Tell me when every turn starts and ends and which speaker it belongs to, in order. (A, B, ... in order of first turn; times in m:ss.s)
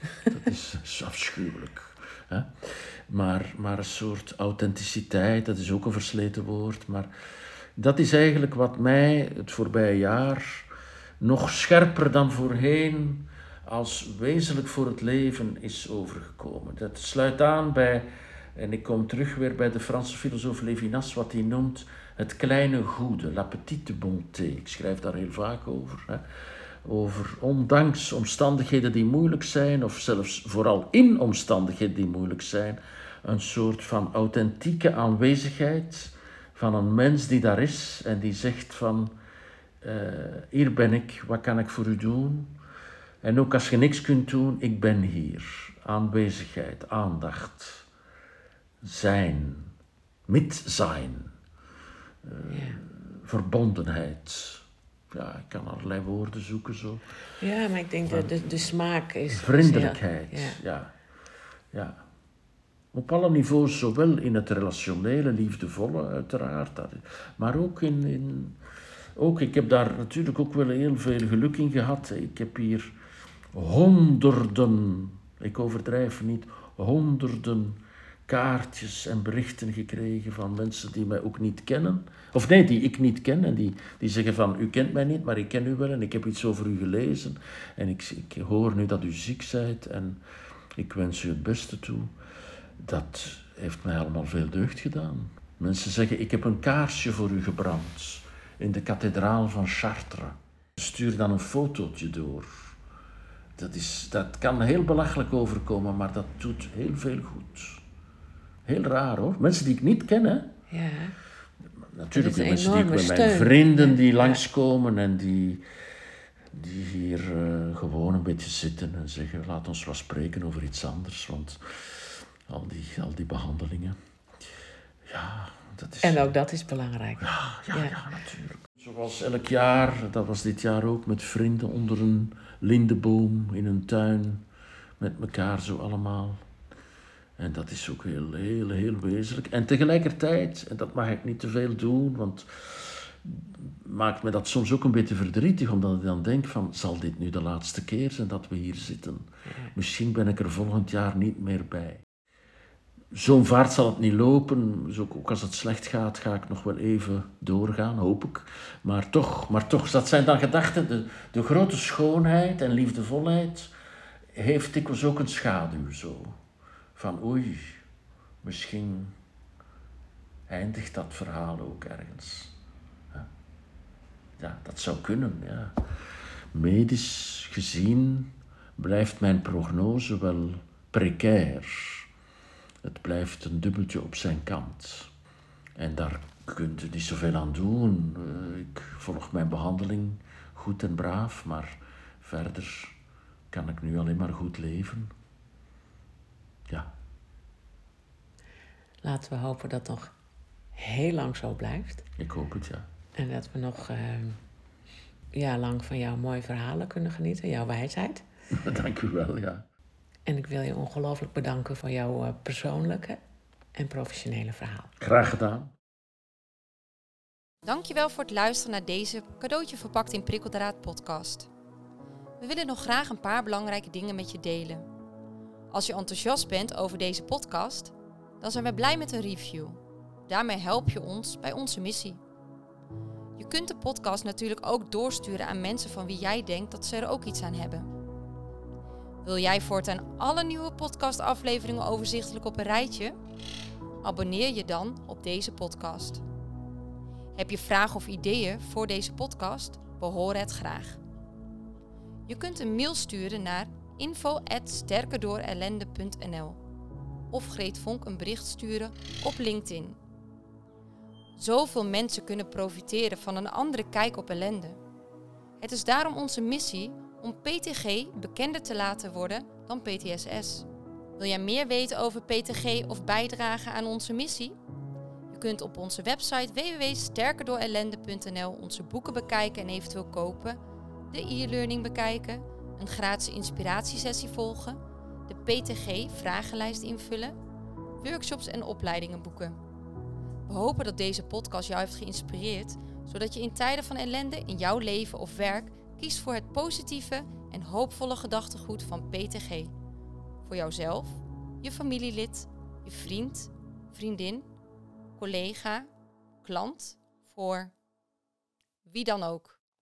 0:00.2-0:07.1 A
0:07.8-0:10.7 A
0:11.2-0:26.2 A
0:26.8-0:39.1 A
0:39.8-0:42.5 A
0:43.2-0:47.8 A
0:48.8-0:49.7 A
0:50.3-0:51.3 A
0:52.2-0:57.0 A
0:52.5-0:52.8 B
0:57.4-1:00.6 B
0:58.1-0:58.3 A
0:59.3-1:00.9 A
1:01.7-1:02.0 A
1:02.9-1:08.6 A
1:09.2-1:12.9 A
1:13.5-1:30.2 A
1:30.8-1:32.1 A
1:32.8-1:42.7 A
1:43.6-1:47.8 A
1:48.6-1:50.5 A
1:50.7-1:51.2 B
1:51.9-1:55.6 A
1:52.1-1:54.4 B
1:56.5-2:04.0 A
2:05.0-2:06.3 A
2:06.0-2:08.0 B
2:07.2-2:14.4 A
2:15.0-2:16.4 A
2:17.4-2:32.0 A
2:33.1-2:43.7 A
2:44.3-2:46.4 A
2:47.0-2:47.8 A
2:48.4-2:49.2 A
2:50.5-2:52.5 A
2:54.4-2:55.8 A
2:56.5-3:02.1 A
3:02.8-3:05.1 A
3:05.8-3:13.0 A
3:13.5-3:15.1 A
3:19.0-3:20.1 B
3:20.8-3:22.0 B
3:22.2-3:22.8 A
3:23.2-3:24.4 B
3:25.3-3:28.2 B
3:28.5-3:29.6 A
3:30.3-3:33.2 B
3:33.7-3:34.9 B
3:35.0-3:35.7 A
3:37.6-3:41.5 C
3:42.4-3:44.8 C
3:45.7-3:52.2 C
3:53.4-3:57.9 C
3:59.2-4:03.2 C
4:04.0-4:06.2 C
4:07.3-4:11.0 C
4:12.3-4:16.6 C
4:17.3-4:20.0 C
4:21.4-4:24.8 C
4:25.6-4:30.7 C
4:31.2-4:34.6 C
4:35.3-4:40.6 C
4:41.1-4:47.4 C
4:48.0-4:49.6 C
4:50.5-4:59.7 C
5:00.4-5:04.5 C
5:05.2-5:05.9 C
5:06.4-5:07.7 C
5:08.8-5:09.6 C